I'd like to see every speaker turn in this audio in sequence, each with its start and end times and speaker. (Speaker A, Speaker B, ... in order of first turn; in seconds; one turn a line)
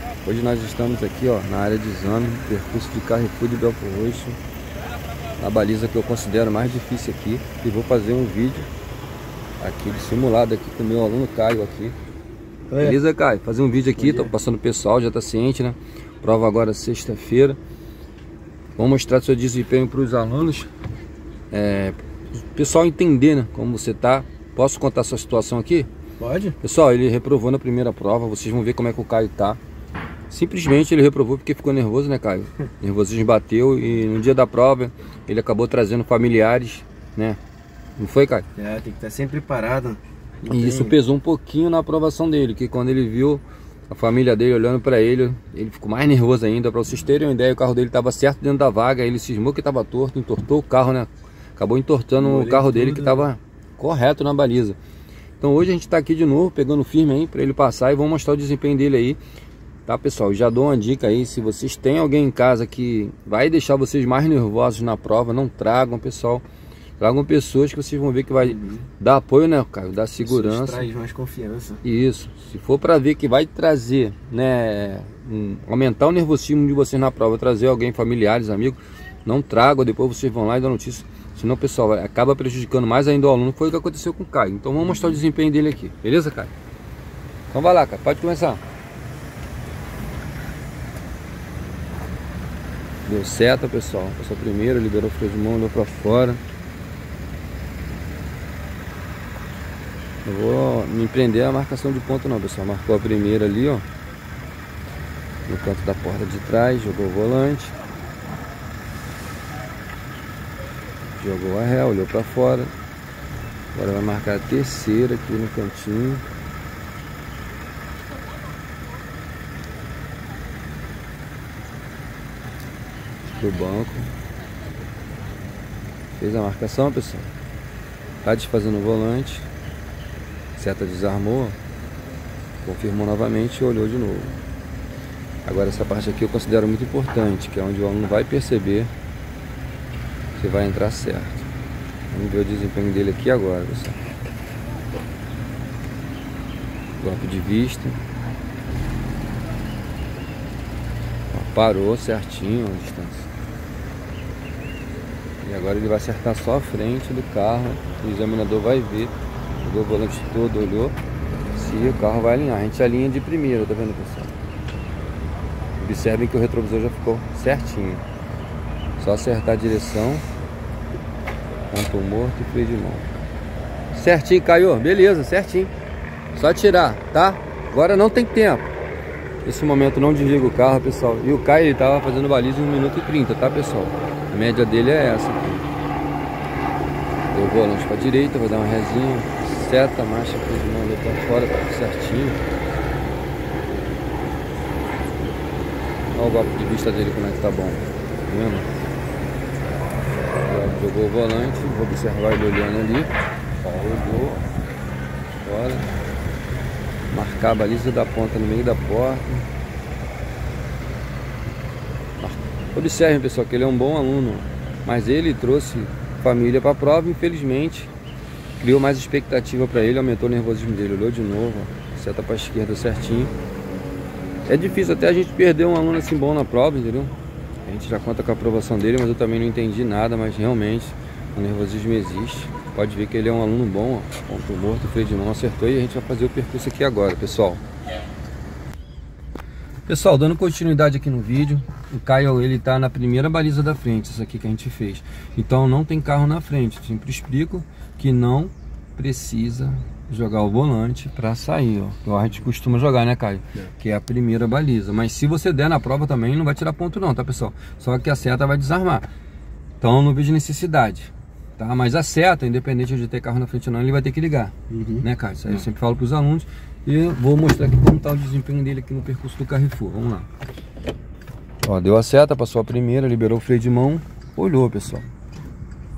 Speaker A: 0.2-4.4
Speaker A: 5.4-8.7
Speaker A: 9.6-11.9
Speaker B: 12.7-13.0
Speaker A: 12.8-17.6
Speaker B: 14.0-14.3
Speaker A: 18.8-20.7
Speaker A: 21.5-22.0
Speaker A: 22.5-25.9
Speaker B: 26.2-26.6
Speaker A: 26.6-29.6
Speaker A: 30.3-37.4
Speaker A: 38.0-38.5
Speaker B: 38.5-41.0
Speaker A: 40.5-54.8
Speaker B: 52.2-53.3
Speaker A: 55.4-59.2
Speaker A: 59.9-66.4
Speaker A: 67.0-70.9
Speaker B: 68.4-68.8
Speaker B: 70.2-71.8
Speaker A: 71.8-86.5
Speaker A: 87.5-88.6
Speaker A: 93.0-96.4
Speaker A: 100.2-103.9
Speaker A: 105.5-107.8
Speaker A: 111.2-112.7
Speaker A: 113.7-116.2
Speaker A: 123.3-124.2
Speaker A: 126.2-127.3
Speaker A: 128.2-129.5
Speaker A: 130.6-131.6
Speaker A: 132.6-134.4
Speaker A: 135.4-138.9
Speaker A: 140.4-141.5
Speaker A: 142.1-144.0
Speaker A: 147.0-148.0
Speaker A: 151.3-153.3
Speaker A: 155.4-161.0
Speaker A: 161.5-164.3
Speaker A: 165.8-168.0
Speaker A: 169.0-170.2
Speaker A: 171.7-173.1
Speaker A: 173.9-175.7
Speaker A: 176.3-178.7
Speaker A: 179.4-185.7
Speaker A: 187.3-192.4
Speaker A: 196.2-198.7
Speaker A: 200.4-204.5
Speaker A: 205.4-205.9
Speaker A: 207.1-209.5
Speaker A: 212.2-217.9
Speaker A: 218.6-223.3
Speaker A: 224.4-237.6
Speaker A: 239.9-259.1
Speaker A: 259.8-270.3
Speaker B: 264.7-265.1
Speaker A: 271.6-275.1